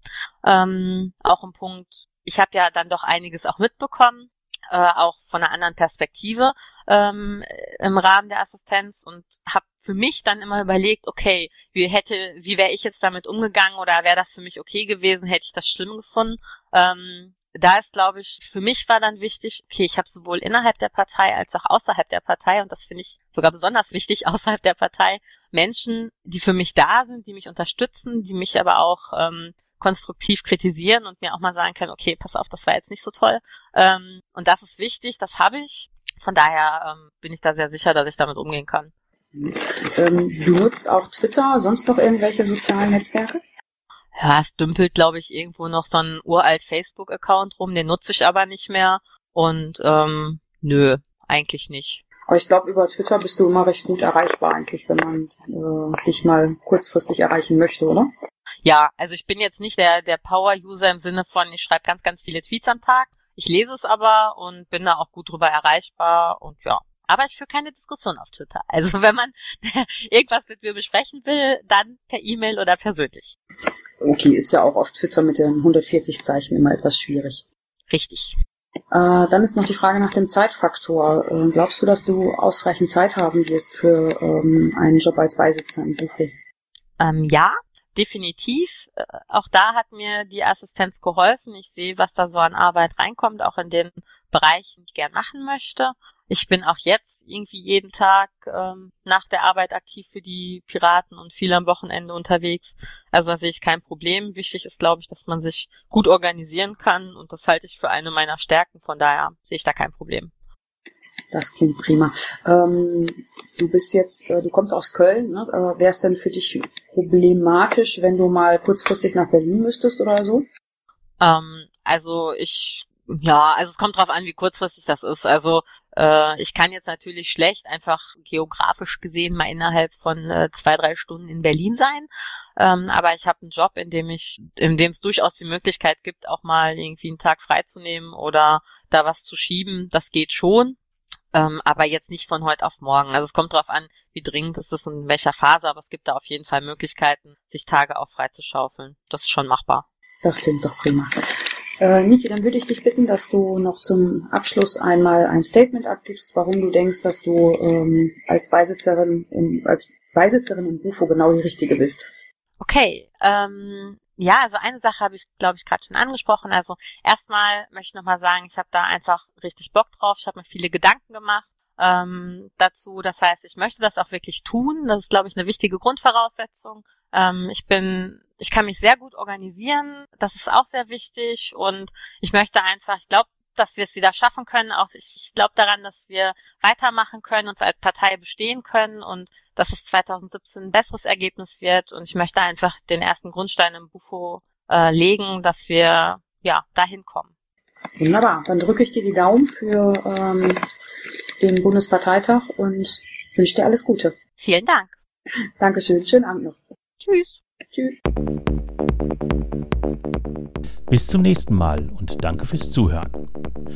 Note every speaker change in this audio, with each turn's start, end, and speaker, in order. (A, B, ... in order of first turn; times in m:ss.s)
0:00.4-0:38.9 A
0:39.3-0:43.4 B
0:44.2-0:52.0 A
0:52.3-0:58.1 B
0:58.6-1:13.4 A
1:14.0-1:17.4 B
1:17.9-1:18.3 A
1:18.9-1:26.3 B
1:27.0-1:50.3 A
1:51.3-2:00.4 B
2:01.2-2:20.8 A
2:21.3-2:29.8 A
2:30.2-2:31.1 B
2:31.8-2:42.1 B
2:42.6-3:17.3 A
3:18.0-3:20.6 B
3:21.4-3:24.1 B
3:24.4-3:24.9 A
3:25.6-3:26.6 B
3:27.0-3:27.4 A
3:30.9-3:33.2 C